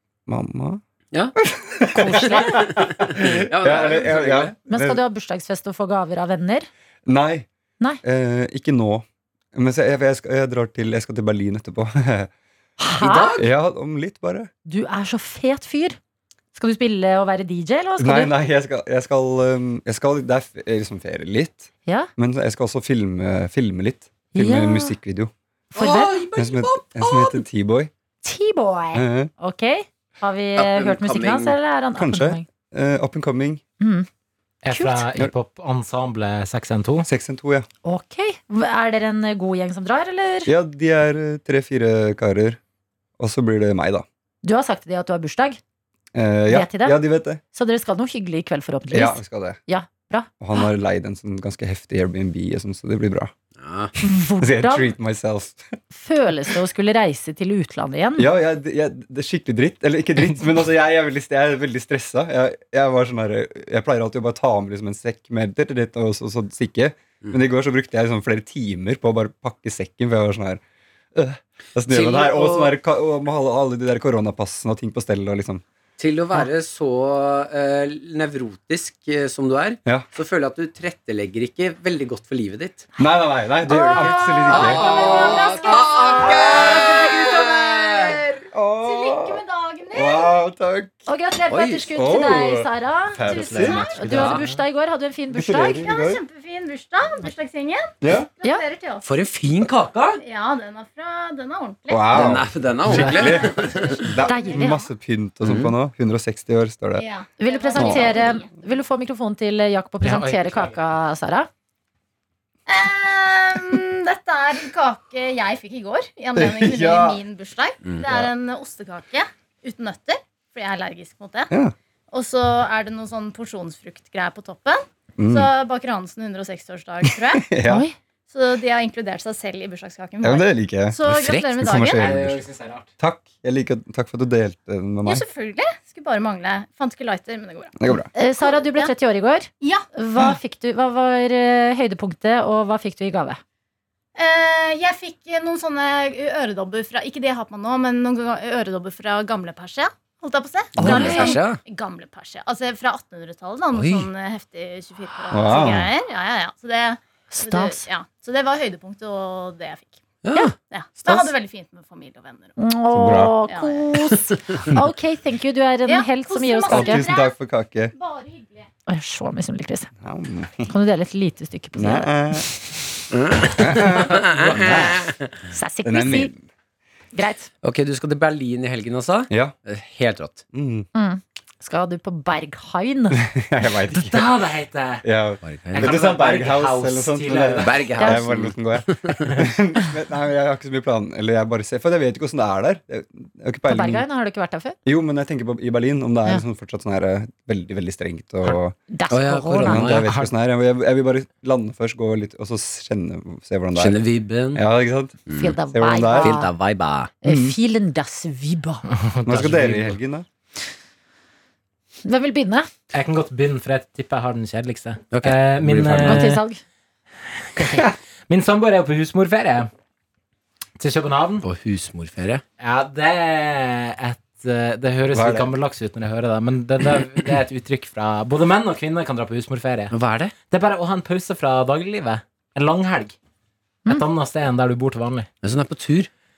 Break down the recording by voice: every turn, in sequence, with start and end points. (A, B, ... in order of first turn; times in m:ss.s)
0:00.3-0:00.8 A
0:01.4-0:05.0 A
0:01.9-0:02.7 B
0:02.4-0:04.6 C
0:04.7-0:06.7 B
0:07.1-0:07.5 A
0:08.0-0:12.3 A
0:12.8-0:13.4 B
0:13.0-0:13.5 C
0:13.4-0:14.5 A
0:14.6-0:16.0 B
0:16.5-0:18.3 B
0:18.0-0:25.3 A
0:21.8-0:22.1 B
0:24.3-0:25.0 B
0:25.7-0:26.2 B
0:25.8-0:27.4 C
0:26.4-0:27.9 A
0:28.2-0:32.5 B
0:28.9-0:29.3 A
0:30.6-0:31.6 C
0:32.0-0:33.6 A
0:33.8-0:34.1 B
0:34.6-0:37.1 D
0:34.7-0:35.1 B
0:37.0-0:37.7 A
0:37.8-0:40.5 B
0:40.5-0:42.6 A
0:43.2-0:44.0 A
0:44.4-0:45.6 B
0:46.1-0:47.4 A
0:46.5-0:50.7 B
0:48.9-0:49.6 A
0:50.4-0:53.3 A
0:53.6-0:53.9 C
0:54.0-0:54.9 B
0:54.4-0:55.7 A
0:55.9-0:58.3 B
0:58.2-1:10.6 A
1:11.2-1:15.6 A
1:11.9-1:12.8 C
1:16.0-1:22.9 C
1:23.0-1:24.9 A
1:23.7-1:26.8 B
1:23.7-1:28.4 C
1:24.7-1:27.3 E
1:26.2-1:27.4 A
1:28.5-1:30.9 A
1:28.8-1:30.3 E
1:31.1-1:35.7 B
1:31.5-1:31.9 C
1:32.0-1:34.3 A
1:33.3-1:34.5 D
1:34.1-1:34.4 C
1:35.3-1:36.2 A
1:35.5-1:39.0 E
1:38.0-1:38.3 A
1:39.0-1:40.2 C
1:40.2-1:42.4 E
1:41.9-1:47.1 A
1:42.1-1:44.0 C
1:42.9-1:43.5 D
1:43.8-1:44.8 E
1:44.2-1:44.8 B
1:45.4-1:45.7 C
1:47.0-1:48.5 E
1:47.4-1:51.5 B
1:47.8-1:48.2 A
1:50.0-1:50.7 D
1:52.7-2:01.5 E
1:56.4-1:57.2 A
1:58.0-1:58.3 A
2:02.1-2:07.5 E
2:05.2-2:05.5 A
2:07.2-2:07.9 A
2:07.7-2:08.0 B
2:08.3-2:12.2 E
2:10.2-2:12.4 A
2:11.1-2:11.5 C
2:12.0-2:12.9 D
2:13.0-2:15.2 A
2:15.0-2:18.9 E
2:17.8-2:18.1 A
2:18.1-2:23.4 B
2:24.2-2:40.0 E
2:30.8-2:31.6 C
2:30.8-2:31.3 A
2:31.0-2:31.3 B
2:31.0-2:31.3 D
2:33.7-2:34.1 C
2:35.3-2:35.9 A
2:37.3-2:37.9 B
2:40.2-2:40.5 C
2:40.7-2:42.6 E
2:42.6-2:47.1 B
2:42.9-2:43.4 A
2:43.5-2:44.1 E
2:45.9-2:47.4 E
2:46.7-2:47.9 A
2:47.9-2:48.7 E
2:48.9-2:49.9 B
2:50.0-2:50.7 A
2:50.7-2:52.7 B
2:51.8-2:52.5 A
2:53.1-2:55.3 C
2:53.6-2:54.9 A
2:54.5-2:55.0 D
2:55.5-2:56.3 B
2:55.8-2:56.4 A
2:57.1-2:57.5 B
2:57.6-3:00.4 C
2:59.3-2:59.6 A
3:00.5-3:00.9 A
3:00.9-3:03.2 B
3:03.2-3:04.3 A
3:03.9-3:05.0 D
3:05.0-3:14.1 A
3:05.4-3:06.0 C
3:05.7-3:08.1 D
3:07.5-3:09.2 C
3:13.7-3:14.8 B
3:14.9-3:18.8 A
3:18.9-3:19.8 B
3:19.1-3:20.1 C
3:19.6-3:26.4 A
3:20.0-3:20.3 D
3:23.8-3:24.6 C
3:25.3-3:25.6 C
3:25.4-3:26.5 B
3:26.2-3:27.1 C
3:27.2-3:28.8 B
3:27.2-3:27.6 A
3:28.9-3:30.0 D
3:29.2-3:30.3 A
3:32.0-3:32.7 B
3:32.9-3:36.4 D
3:35.1-3:36.2 C
3:36.0-3:36.6 B
3:37.6-3:39.7 D
3:40.8-3:41.5 D
3:41.4-3:42.4 C
3:42.6-3:49.9 D
3:45.1-3:45.5 A
3:49.9-3:50.3 C
3:50.5-3:53.2 D
3:53.9-3:55.3 D
3:55.4-3:56.1 C